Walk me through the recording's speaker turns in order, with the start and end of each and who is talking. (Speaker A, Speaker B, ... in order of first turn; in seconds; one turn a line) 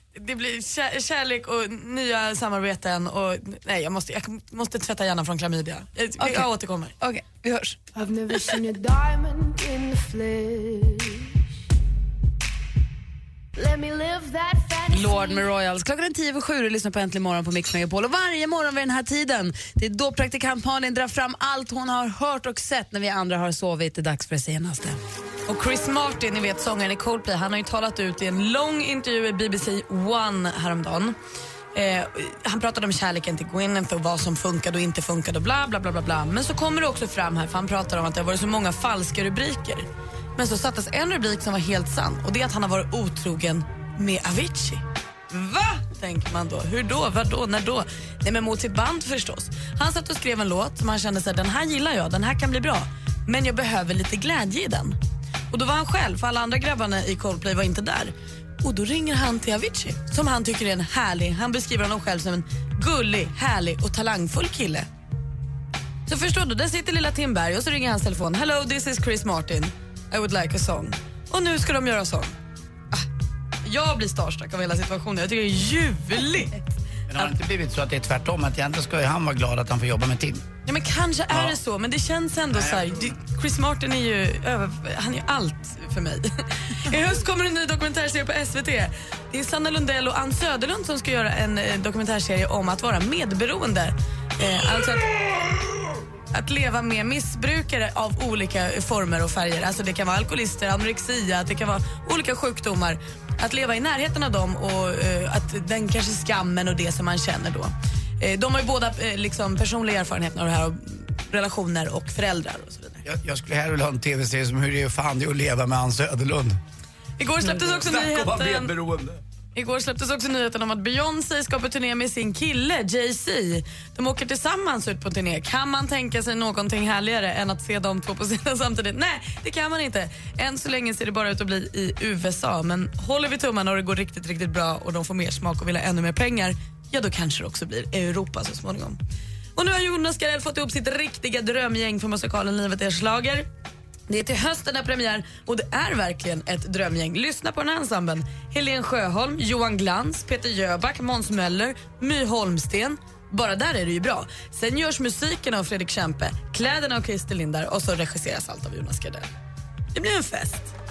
Speaker A: 0.1-6.9
Speaker B: 6.2-6.5
Speaker B: 7.0-7.8
Speaker C: 7.9-11.3
Speaker C: 13.6-15.4
Speaker B: 14.9-25.0
Speaker A: 25.5-31.1
Speaker A: 31.7-55.0
Speaker A: 55.5-64.9
Speaker A: 66.1-72.3
Speaker A: 73.6-76.6
Speaker D: 77.1-80.4
Speaker A: 80.7-95.2
Speaker D: 81.3-81.6
Speaker D: 82.5-83.1
Speaker A: 96.3-113.0
Speaker D: 113.0-116.6
Speaker A: 117.2-118.7
Speaker D: 117.4-119.2
Speaker A: 119.5-139.0
Speaker A: 139.6-143.5
Speaker A: 144.1-159.3
Speaker A: 159.9-160.7